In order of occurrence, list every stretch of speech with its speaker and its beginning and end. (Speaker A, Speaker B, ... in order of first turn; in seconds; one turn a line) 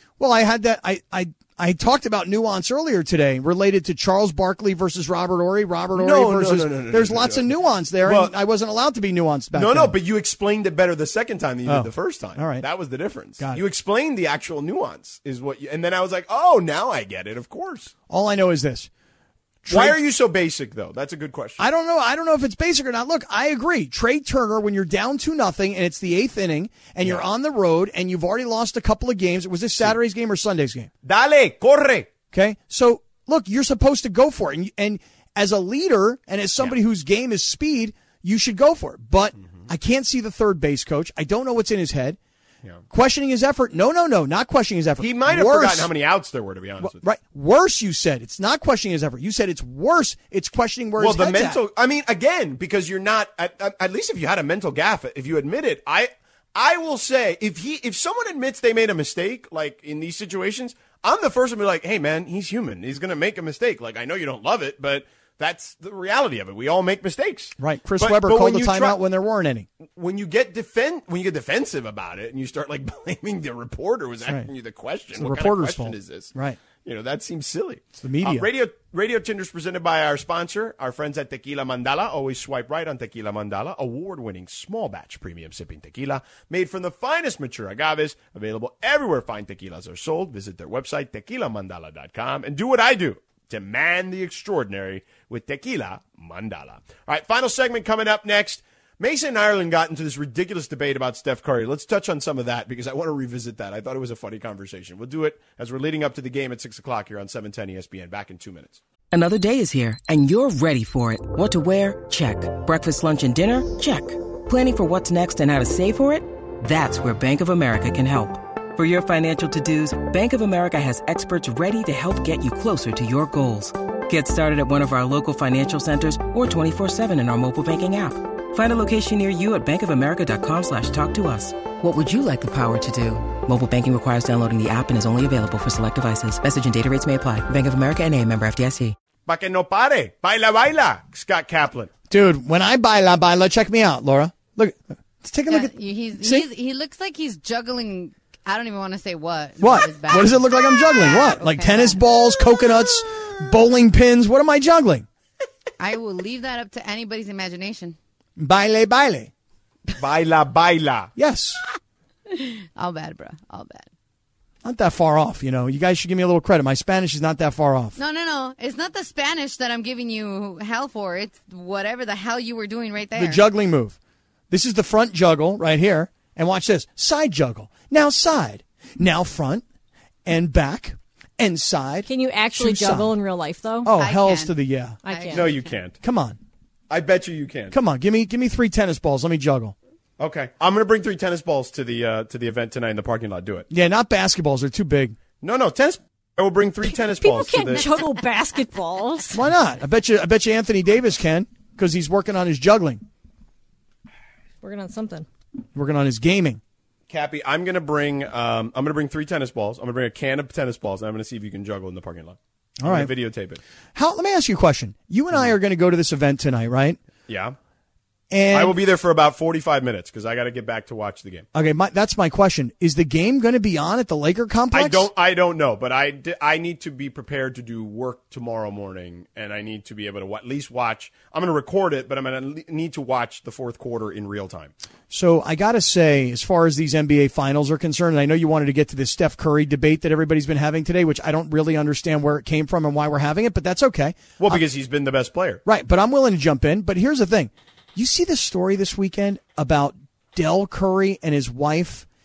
Speaker A: 0.2-9.9
Speaker B: 6.0-8.3
Speaker B: 9.5-17.9
Speaker A: 11.7-12.7
Speaker A: 18.1-18.9
Speaker A: 19.6-20.0
Speaker B: 19.7-21.6
Speaker A: 21.6-30.9
Speaker B: 31.0-32.1
Speaker A: 32.3-42.2
Speaker A: 42.9-45.9
Speaker B: 45.0-47.0
Speaker A: 46.8-51.6
Speaker B: 51.0-69.0
Speaker A: 67.6-69.7
Speaker B: 70.0-76.3
Speaker A: 75.2-76.6
Speaker B: 76.8-108.8
Speaker A: 78.0-78.5
Speaker C: 109.1-138.9
Speaker B: 139.2-141.9
Speaker A: 142.1-146.5
Speaker D: 145.5-152.0
Speaker A: 149.6-155.1
Speaker D: 155.8-158.0
Speaker A: 158.4-159.3
Speaker B: 159.9-161.1
Speaker A: 161.2-161.6
Speaker D: 162.3-163.9
Speaker A: 164.6-167.9
Speaker D: 168.0-173.4
Speaker A: 173.2-173.9
Speaker A: 174.5-179.6
Speaker A: 180.2-183.1
Speaker E: 182.1-183.9
Speaker A: 183.8-185.0
Speaker D: 184.0-184.5
Speaker E: 185.0-185.5
Speaker D: 185.1-185.7
Speaker B: 185.3-186.0
Speaker A: 186.0-186.4
Speaker B: 186.9-187.8
Speaker A: 187.7-189.7
Speaker B: 190.2-193.7
Speaker A: 193.7-195.2
Speaker B: 195.4-197.9
Speaker E: 197.1-199.4
Speaker A: 199.3-203.0
Speaker E: 204.6-205.3
Speaker A: 205.7-206.6
Speaker B: 207.1-213.6
Speaker A: 212.8-213.1
Speaker A: 213.9-217.0
Speaker B: 217.3-217.6
Speaker A: 218.3-218.8
Speaker B: 218.5-221.4
Speaker A: 221.5-225.1
Speaker B: 224.7-234.7
Speaker A: 235.1-244.6
Speaker B: 244.4-245.6
Speaker A: 245.6-252.1